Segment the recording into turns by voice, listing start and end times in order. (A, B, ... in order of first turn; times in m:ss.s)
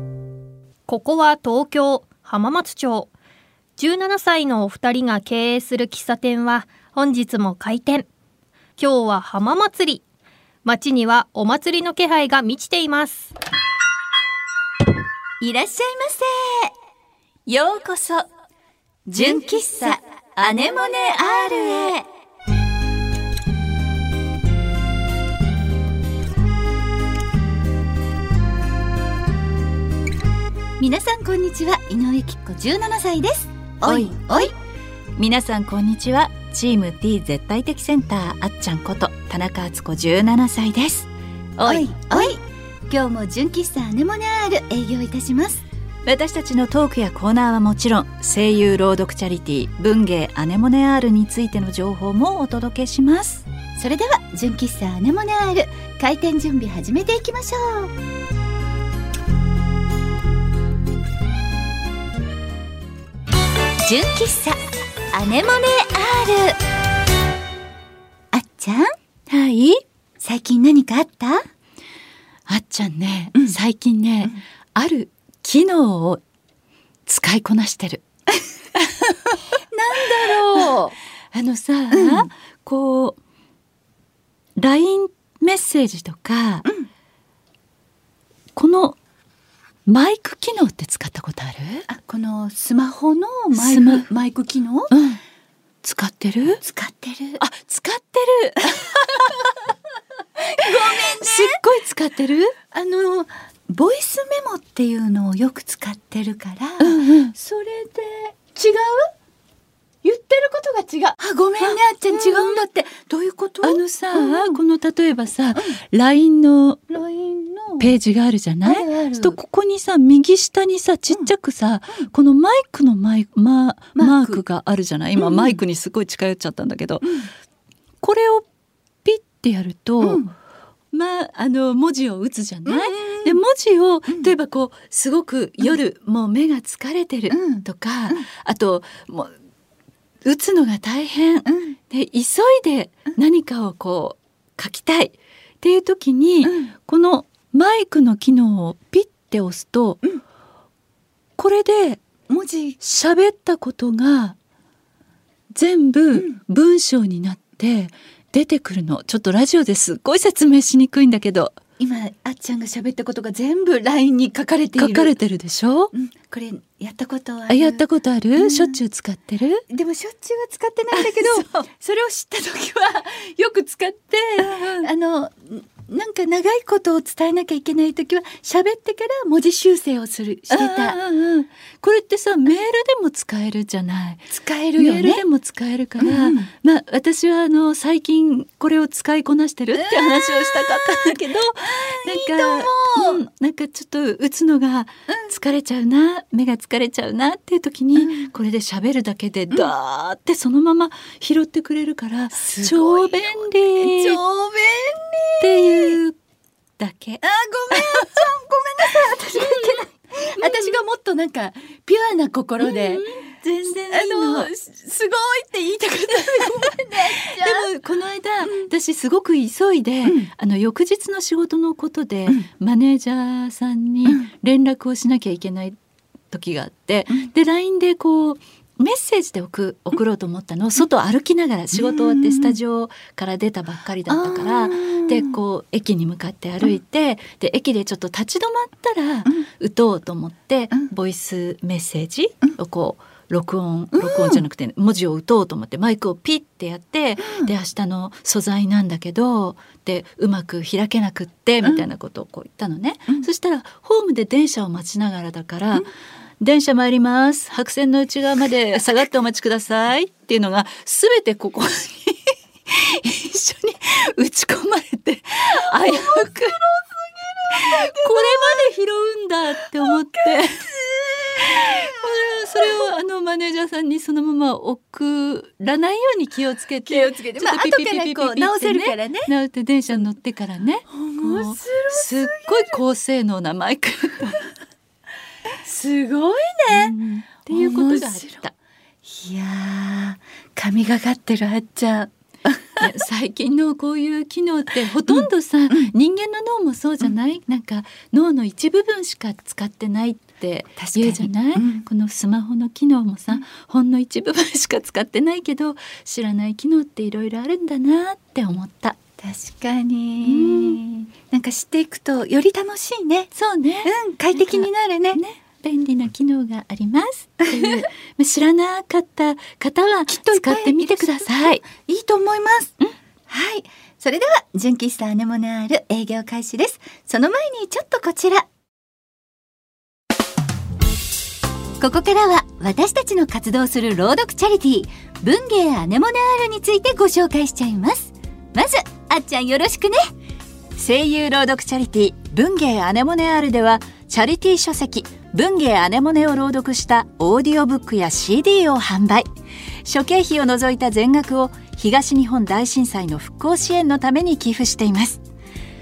0:00.9-0:03.1 A
0:03.8-0:08.1 A
0:08.8-0:10.0 A
0:10.6-0:13.3 A
0:15.4-0:16.7 B
0:17.5-0:18.3 C
0:19.1-0:19.5 C
0:19.1-0:22.0 B
0:30.8-0:34.5 B
0:33.8-0:34.5 C
0:35.2-0:42.3 C
0:41.6-0:45.6 B
0:46.0-0:53.4 C
0:53.8-0:57.9 B
1:03.8-1:04.6 B
1:05.1-1:06.6 B
1:08.3-1:08.9 B
1:09.3-1:09.8 C
1:10.2-1:11.4 B
1:12.5-1:16.2 C
1:17.0-1:18.0 C
1:19.7-1:20.9 B
1:20.1-1:20.7 C
1:21.3-1:23.2 C
1:21.9-1:22.3 B
1:24.6-1:26.7 C
1:28.5-1:29.0 C
1:29.8-1:31.8 C
1:31.9-1:34.9 B
1:33.5-1:34.1 C
1:34.9-1:35.2 C
1:35.8-1:36.6 C
1:36.6-1:37.4 B
1:37.4-1:39.5 C
1:40.4-1:41.6 B
1:40.7-1:42.5 C
1:42.7-1:49.1 B
1:46.8-1:47.3 C
1:50.0-1:54.6 B
1:51.6-1:52.6 C
1:53.6-1:56.8 C
1:56.9-1:57.9 B
1:57.8-2:07.1 C
1:58.6-1:59.4 B
2:04.0-2:04.4 B
2:05.2-2:05.6 B
2:07.0-2:07.3 B
2:08.0-2:08.4 C
2:09.0-2:10.2 C
2:10.0-2:10.3 B
2:10.9-2:19.3 C
2:12.6-2:13.4 B
2:17.3-2:18.2 B
2:20.2-2:30.0 C
2:21.4-2:21.8 B
2:26.4-2:26.7 B
2:31.4-2:32.0 C
2:32.3-2:32.8 B
2:32.8-2:34.4 C
2:35.5-2:41.6 C
2:36.1-2:36.4 B
2:41.8-2:45.2 B
2:44.8-2:45.9 C
2:45.9-2:47.8 B
2:47.5-2:49.6 C
2:48.4-2:48.8 B
2:49.7-3:01.0 B
2:50.9-2:51.7 C
2:54.4-2:54.9 C
3:00.5-3:24.2 C
3:04.3-3:05.2 B
3:06.0-3:06.5 B
3:09.7-3:13.2 B
3:15.1-3:15.4 B
3:18.0-3:18.3 B
3:22.3-3:26.0 B
3:25.4-3:26.2 C
3:26.8-3:28.2 C
3:27.2-3:33.0 B
3:29.3-3:30.8 C
3:32.6-3:34.5 C
3:33.7-3:37.7 B
3:36.3-3:45.8 C
3:40.0-3:40.3 B
3:46.3-4:15.9 C
3:51.8-3:52.5 B
3:54.1-3:55.3 B
4:03.9-4:04.4 B
4:07.2-4:07.5 B
4:16.4-4:26.6 C
4:25.7-4:28.7 B
4:27.5-4:30.7 C
4:29.9-4:32.0 B
4:31.4-4:44.4 C
4:36.9-4:39.3 B
4:40.9-4:42.8 B
4:45.6-4:46.9 B
4:46.7-4:48.5 C
4:47.5-4:48.4 B
4:49.0-4:52.8 B
4:52.8-5:09.0 C
4:55.0-4:55.9 B
5:00.8-5:01.8 B
5:09.2-5:13.3 B
5:10.2-5:10.8 C
5:13.3-5:21.6 C
5:13.8-5:15.2 B
5:17.4-5:17.8 B
5:20.1-5:22.8 B
5:23.3-5:28.5 B
5:31.8-5:40.0 B
5:40.8-5:49.3 C
5:49.8-5:55.2 C